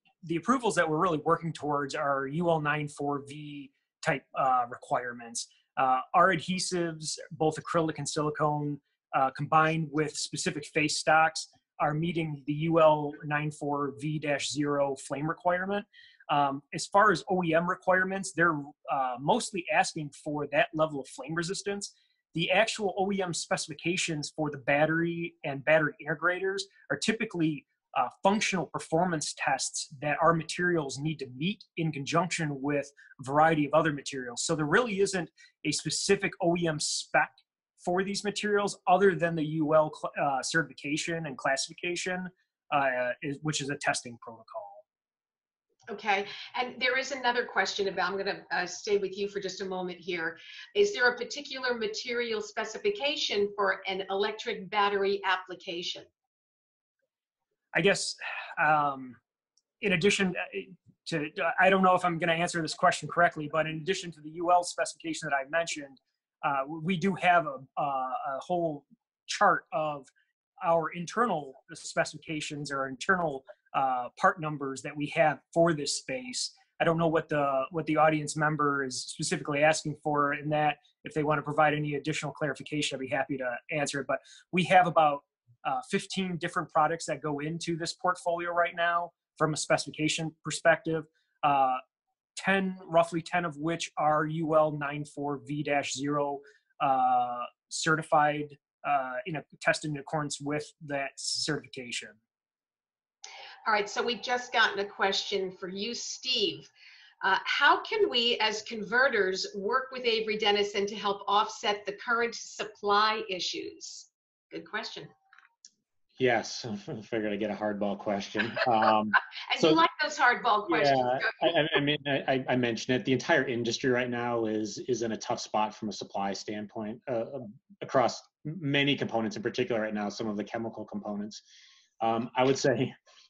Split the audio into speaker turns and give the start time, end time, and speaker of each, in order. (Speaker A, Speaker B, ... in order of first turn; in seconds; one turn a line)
Speaker A: 0.2-44.8
Speaker B: 45.9-56.1
Speaker A: 57.7-59.2
Speaker A: 59.8-70.1
Speaker A: 70.6-91.8
Speaker A: 92.3-102.2
Speaker B: 103.7-106.7
Speaker B: 107.2-115.1
Speaker C: 116.2-119.8
Speaker B: 119.5-121.5
Speaker C: 120.7-131.4
Speaker C: 132.0-132.9